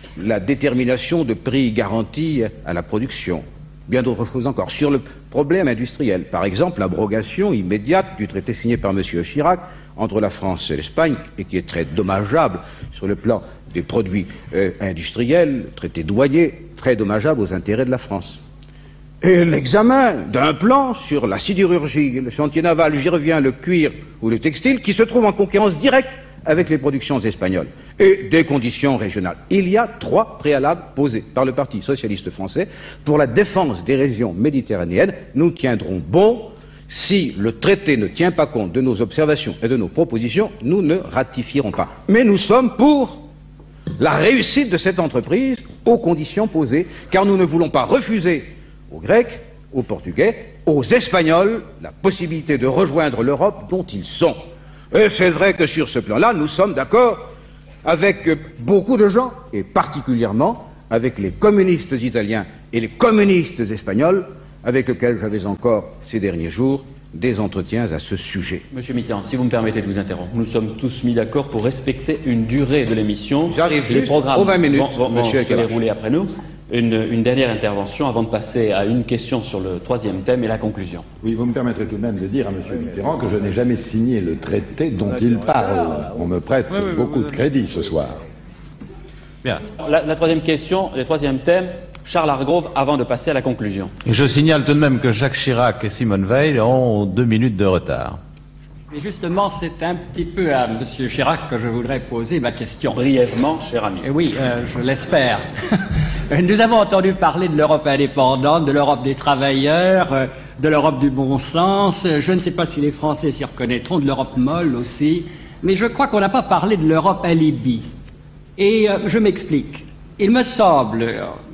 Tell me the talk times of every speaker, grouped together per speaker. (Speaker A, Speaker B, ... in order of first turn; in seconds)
Speaker A: 0.2-18.4, 19.2-43.2, 44.0-57.3, 57.9-68.7, 73.5-75.8
Speaker B: 68.7-81.0, 89.7-94.0, 103.0-104.1
Speaker C: 81.2-88.2
Speaker D: 86.8-87.2, 94.0-98.2
Speaker E: 98.9-103.0, 104.0-105.5, 106.3-117.9, 118.6-121.3